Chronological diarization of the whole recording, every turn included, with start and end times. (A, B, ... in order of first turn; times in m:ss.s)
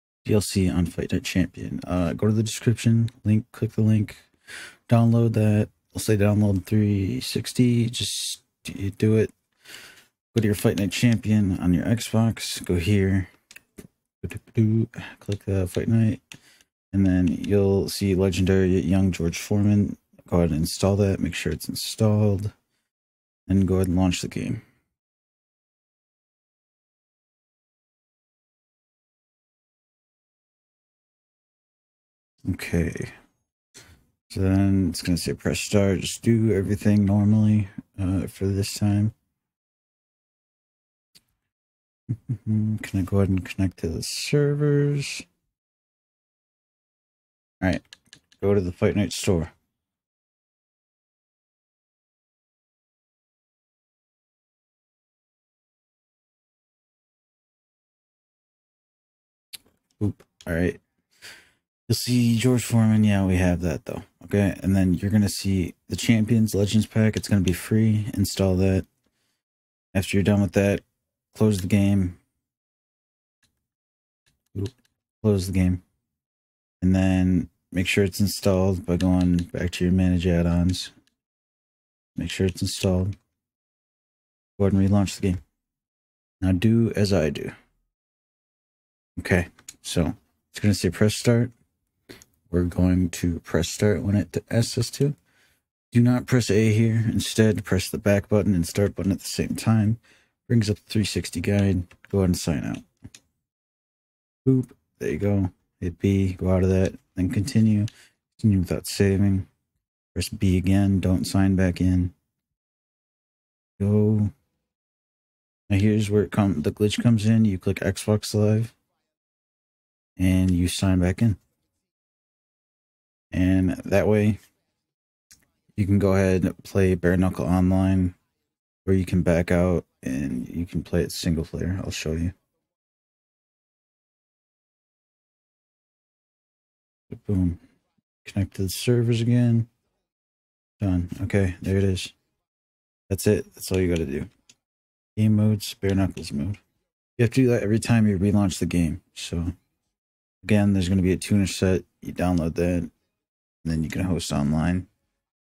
0:00.2-0:04.2 A
0:04.9-0:09.3 A
0:10.3-0:13.3 A
0:14.2-0:16.2 A
0:16.9-0:22.5 A
0:23.5-0:24.6 A
0:32.4-0:33.1 A
0:34.3-0:39.1 A
0:42.1-0:45.2 A
0:48.4-0:49.5 A
1:00.0-1:00.8 A
1:01.9-1:08.9 A
1:09.9-1:12.2 A
1:14.5-1:15.8 A
1:16.8-1:20.9 A
1:22.2-1:23.1 A
1:24.6-1:25.4 A
1:26.4-1:27.5 A
1:29.2-1:31.5 A
1:32.5-1:35.2 A
1:35.9-1:42.8 A
1:44.4-1:49.5 A
1:50.1-1:52.1 A
1:53.8-1:54.3 A
1:55.7-1:58.7 A
2:00.2-2:01.4 A
2:03.3-2:04.4 A
2:05.8-2:08.2 A
2:08.8-2:12.3 A
2:17.1-2:17.6 A
2:18.2-2:19.7 A
2:20.8-2:22.1 A
2:23.1-2:24.3 A
2:25.2-2:26.6 A
2:27.2-2:29.5 A
2:30.4-2:32.9 A
2:33.6-2:34.9 A